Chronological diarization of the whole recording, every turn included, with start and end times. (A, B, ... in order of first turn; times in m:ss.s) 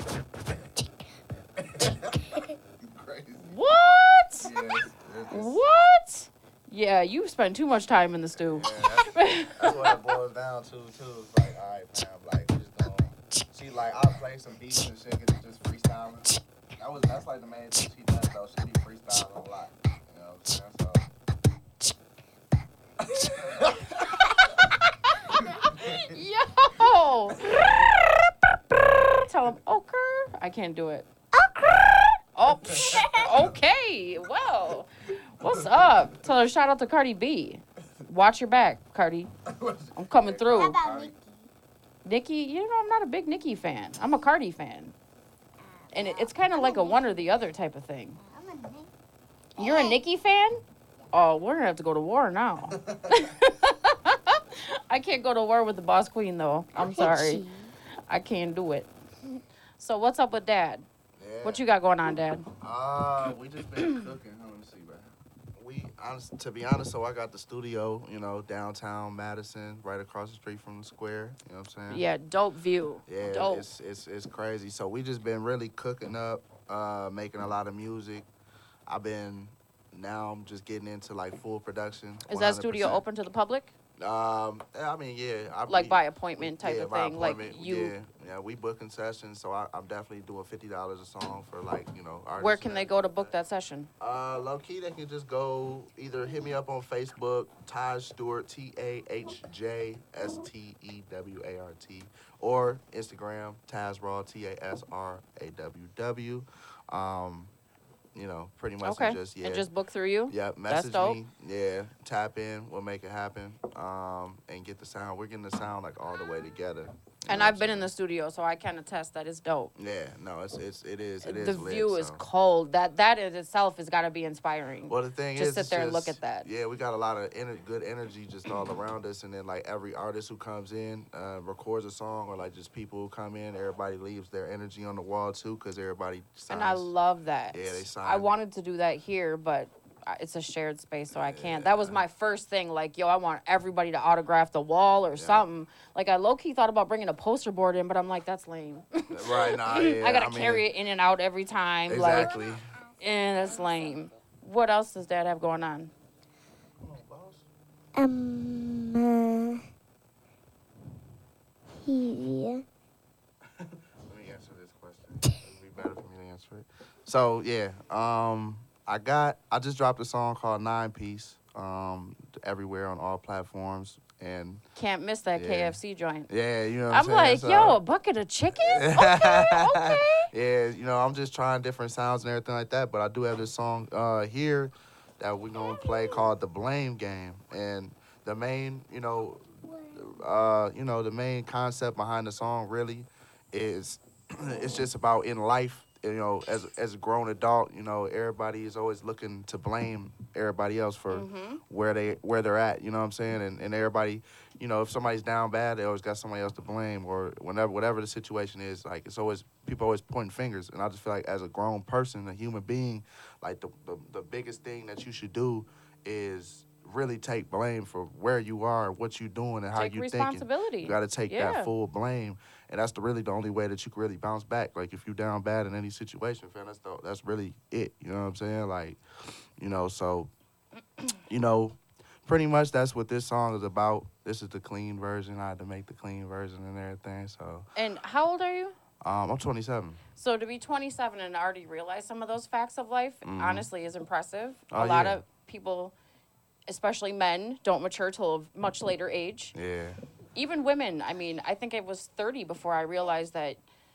0:01.4-0:03.5 A
0:03.4-0:04.5 B
0:04.4-0:05.6 A
0:05.3-0:10.0 B
0:08.4-0:21.1 A
0:23.0-0:24.4 A
0:25.3-0:27.9 B
0:25.5-0:26.2 A
0:29.1-0:31.1 B
0:31.4-0:32.0 C
0:32.4-0:39.3 B
0:32.7-0:33.4 A
0:32.9-0:33.3 C
0:35.4-0:35.8 A
0:39.4-0:41.1 A
0:40.0-0:40.8 B
0:40.5-0:41.5 C
0:42.0-0:44.9 B
0:45.6-0:47.3 C
0:45.9-0:48.2 B
0:48.2-0:48.9 C
0:49.6-0:50.6 B
0:49.6-0:50.0 C
0:51.1-0:57.4 B
0:52.7-0:53.3 A
0:56.7-0:57.7 C
0:58.1-0:58.9 B
0:59.8-1:00.9 B
1:01.2-1:01.6 A
1:01.4-1:02.5 B
1:02.6-1:12.0 A
1:11.9-1:13.7 B
1:13.1-1:18.3 A
1:18.9-1:23.0 A
1:22.3-1:23.7 B
1:24.0-1:33.4 A
1:25.7-1:28.0 B
1:32.4-1:33.9 B
1:34.0-1:47.5 A
1:48.2-1:49.7 A
1:48.8-1:51.2 B
1:50.3-1:57.9 A
1:57.3-1:59.7 B
1:59.8-2:02.2 A
2:01.2-2:06.5 B
2:04.9-2:16.9 A
2:16.5-2:32.3 B
2:17.5-2:18.3 A
2:21.1-2:22.0 A
2:25.1-2:25.5 A
2:29.1-2:30.7 A
2:31.9-2:32.7 A
2:32.1-2:32.6 C
2:33.0-2:35.9 B
2:33.4-2:34.0 C
2:36.8-2:37.5 A
2:38.0-2:39.6 C
2:41.8-2:42.6 C
2:43.5-2:54.6 A
2:54.8-2:56.3 B
2:55.4-2:55.8 A
2:56.3-2:57.8 A
2:56.9-3:00.3 B
2:58.5-3:49.0 A
3:09.7-3:10.1 C
3:21.1-3:21.6 B
3:39.8-3:41.7 B
3:49.6-3:50.3 A
3:51.3-3:57.7 A
3:57.8-3:58.8 B
3:59.0-4:00.0 A
4:00.2-4:05.9 B
4:03.2-4:03.7 A
4:04.7-4:05.2 A
4:06.7-4:09.6 B
4:09.5-4:10.0 A
4:10.4-4:13.6 B